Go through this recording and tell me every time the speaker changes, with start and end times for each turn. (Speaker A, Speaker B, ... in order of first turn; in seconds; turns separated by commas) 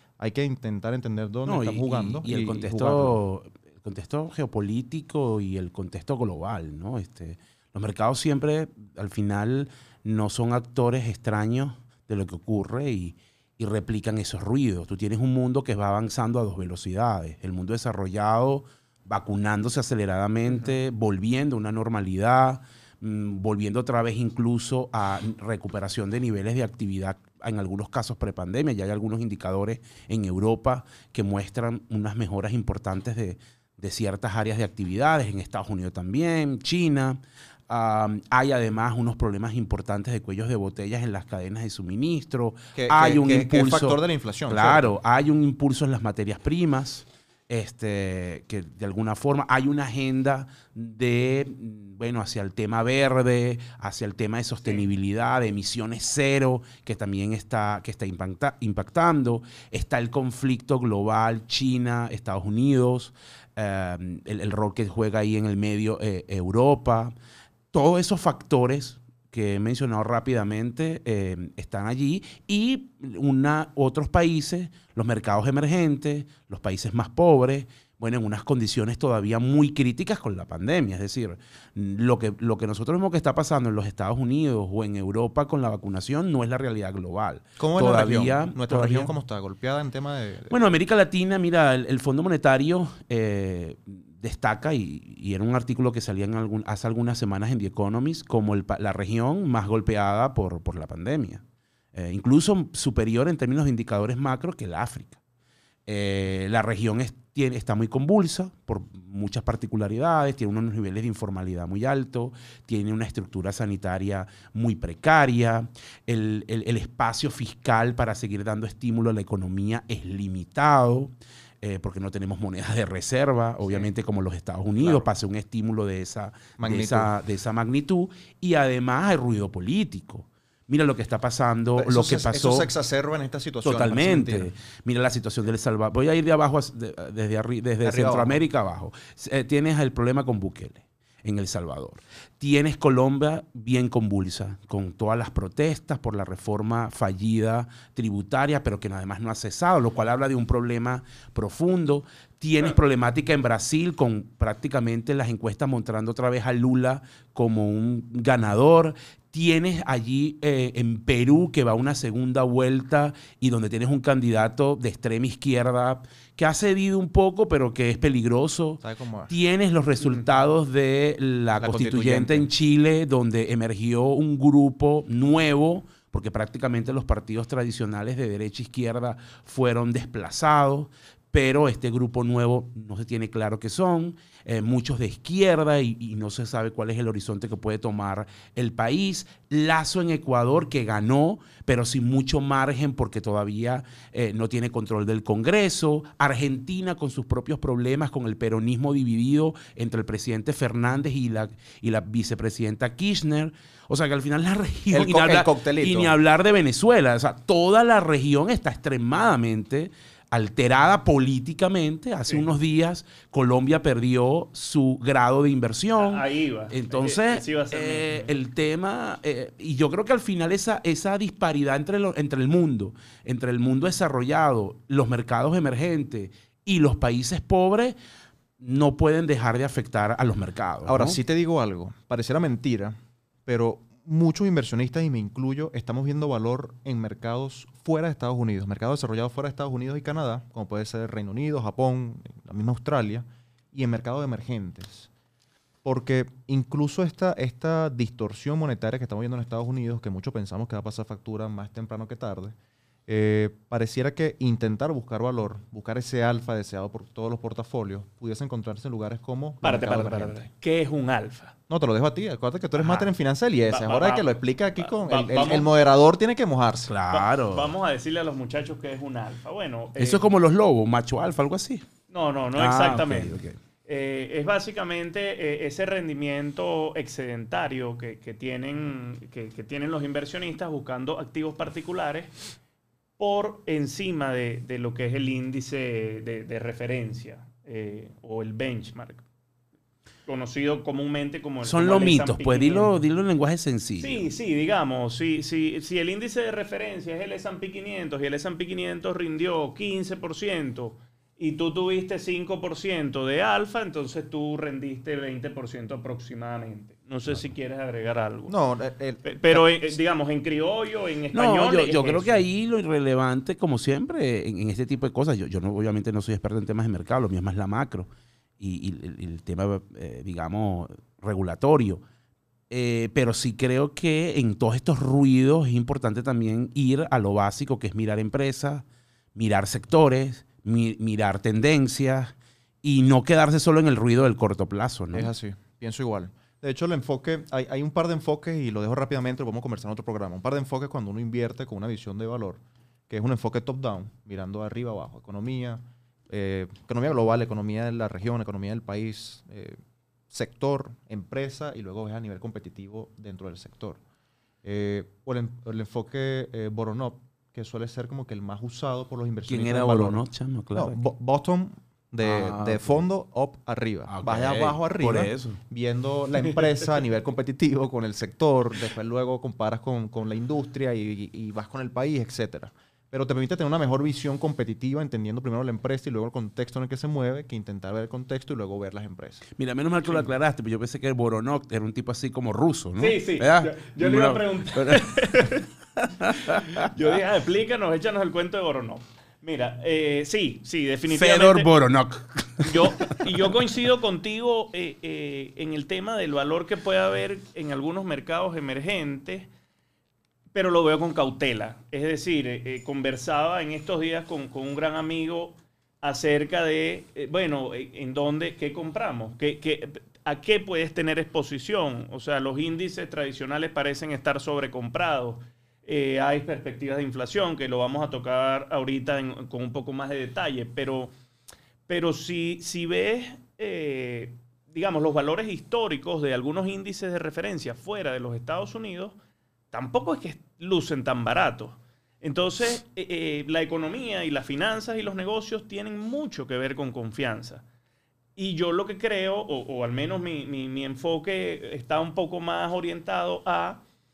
Speaker A: 0.2-3.2, Speaker B: 1.4-67.1, Speaker A: 42.7-44.9, Speaker B: 67.7-89.1, Speaker A: 87.6-90.5, Speaker B: 90.5-101.4, Speaker B: 101.9-105.2, Speaker B: 105.8-132.7, Speaker A: 124.8-125.1, Speaker A: 126.6-127.1, Speaker A: 131.8-134.5, Speaker B: 133.6-227.9, Speaker A: 137.8-138.4, Speaker A: 168.8-169.3, Speaker C: 170.0-170.3, Speaker A: 171.6-172.5, Speaker A: 204.9-206.2, Speaker C: 216.0-218.3, Speaker B: 228.6-231.2, Speaker A: 230.9-245.1, Speaker A: 245.8-252.6, Speaker A: 253.1-260.5, Speaker C: 259.6-261.5, Speaker A: 261.7-266.9, Speaker C: 262.8-263.1, Speaker C: 263.7-265.7, Speaker B: 266.8-267.7, Speaker C: 267.1-270.2, Speaker B: 270.0-271.8, Speaker C: 272.1-282.3, Speaker B: 272.6-273.6, Speaker C: 283.2-289.2, Speaker C: 290.3-293.0, Speaker B: 291.6-294.3, Speaker C: 294.0-308.6, Speaker A: 308.5-309.7, Speaker C: 309.2-312.4, Speaker B: 311.3-318.1, Speaker B: 318.6-322.0, Speaker B: 322.7-335.3, Speaker A: 335.1-349.8, Speaker A: 350.3-354.0, Speaker A: 354.6-360.2, Speaker B: 359.5-361.0, Speaker A: 360.7-379.4, Speaker B: 362.2-363.0, Speaker B: 364.1-365.6, Speaker B: 379.6-386.9, Speaker C: 383.0-385.6, Speaker C: 386.4-391.7, Speaker B: 391.1-393.2, Speaker C: 392.6-399.5, Speaker C: 400.5-421.1, Speaker C: 421.9-429.2, Speaker C: 429.7-437.6, Speaker C: 438.4-443.8